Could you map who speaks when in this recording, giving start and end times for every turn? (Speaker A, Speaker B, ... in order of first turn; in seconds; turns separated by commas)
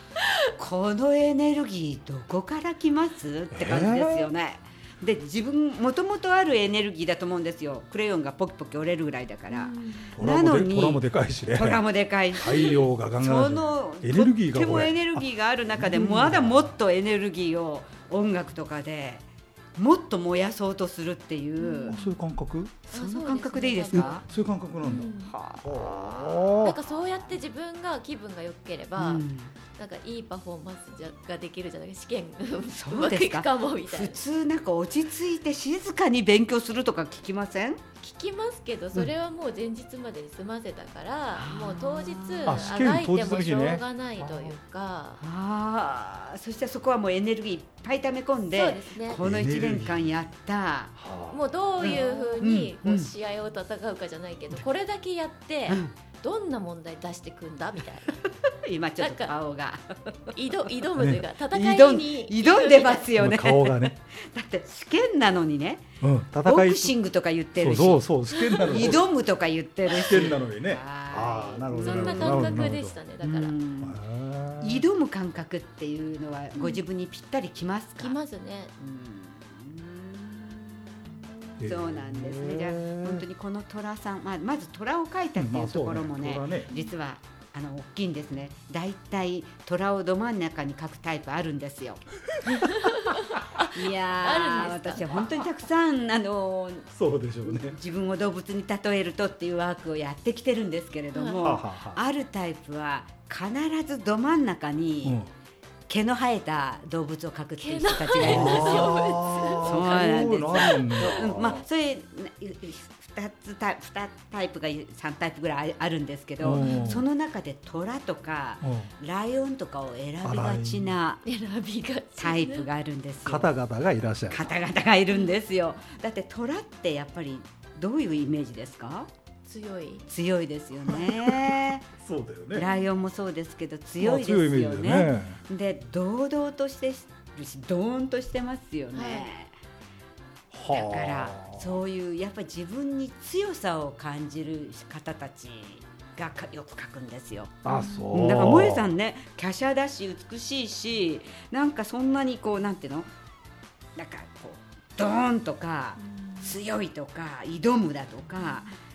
Speaker A: 0.6-19.2, Speaker B: 3.5-4.3, Speaker C: 9.5-10.2, Speaker B: 10.1-11.8, Speaker B: 12.3-15.2, Speaker B: 15.8-16.6, Speaker A: 19.8-22.0, Speaker C: 21.6-22.1, Speaker B: 21.9-22.8, Speaker A: 22.8-24.2, Speaker C: 22.9-24.2, Speaker B: 24.0-26.8, Speaker C: 24.8-25.3, Speaker A: 24.8-27.1, Speaker C: 26.6-34.2, Speaker A: 29.0-29.5, Speaker A: 32.6-37.8, Speaker C: 38.0-45.2, Speaker A: 41.4-42.7, Speaker B: 42.5-44.5, Speaker A: 45.2-51.0, Speaker C: 48.4-49.2, Speaker B: 49.2-50.0, Speaker B: 51.0-51.4, Speaker C: 51.3-58.2, Speaker A: 51.8-53.1, Speaker A: 55.7-55.9, Speaker A: 58.4-60.4, Speaker C: 59.0-59.4, Speaker C: 60.3-63.1, Speaker B: 61.0-61.3, Speaker A: 61.4-65.8, Speaker B: 63.1-63.9, Speaker B: 66.0-66.9, Speaker A: 66.4-74.0, Speaker B: 67.6-69.1, Speaker C: 68.3-68.8, Speaker B: 69.9-73.0, Speaker C: 71.7-73.5, Speaker B: 73.8-74.8, Speaker A: 74.6-78.2, Speaker C: 76.5-76.8, Speaker C: 78.0-78.7, Speaker A: 78.8-92.0, Speaker B: 81.6-83.2, Speaker B: 85.3-86.7, Speaker B: 92.3-93.0, Speaker C: 92.4-95.5, Speaker A: 93.7-96.9, Speaker B: 96.9-97.7, Speaker A: 97.4-105.2, Speaker C: 101.1-101.5, Speaker B: 101.4-102.0, Speaker A: 105.9-109.0, Speaker C: 107.6-111.4, Speaker B: 108.2-111.6, Speaker A: 109.6-121.2, Speaker B: 116.4-117.0, Speaker C: 116.5-117.0, Speaker B: 118.6-118.9, Speaker B: 120.2-121.0, Speaker C: 121.2-122.7, Speaker A: 122.2-123.5, Speaker B: 123.2-124.5, Speaker A: 124.3-129.1, Speaker C: 125.1-125.3, Speaker C: 129.4-130.0, Speaker A: 130.1-131.9, Speaker B: 130.9-132.7, Speaker A: 132.5-139.5, Speaker B: 134.0-135.4, Speaker C: 138.9-139.3, Speaker B: 140.5-141.7, Speaker A: 140.7-153.1, Speaker B: 147.6-148.8, Speaker C: 147.7-148.3, Speaker A: 153.9-158.7, Speaker C: 156.0-156.6, Speaker C: 158.3-158.7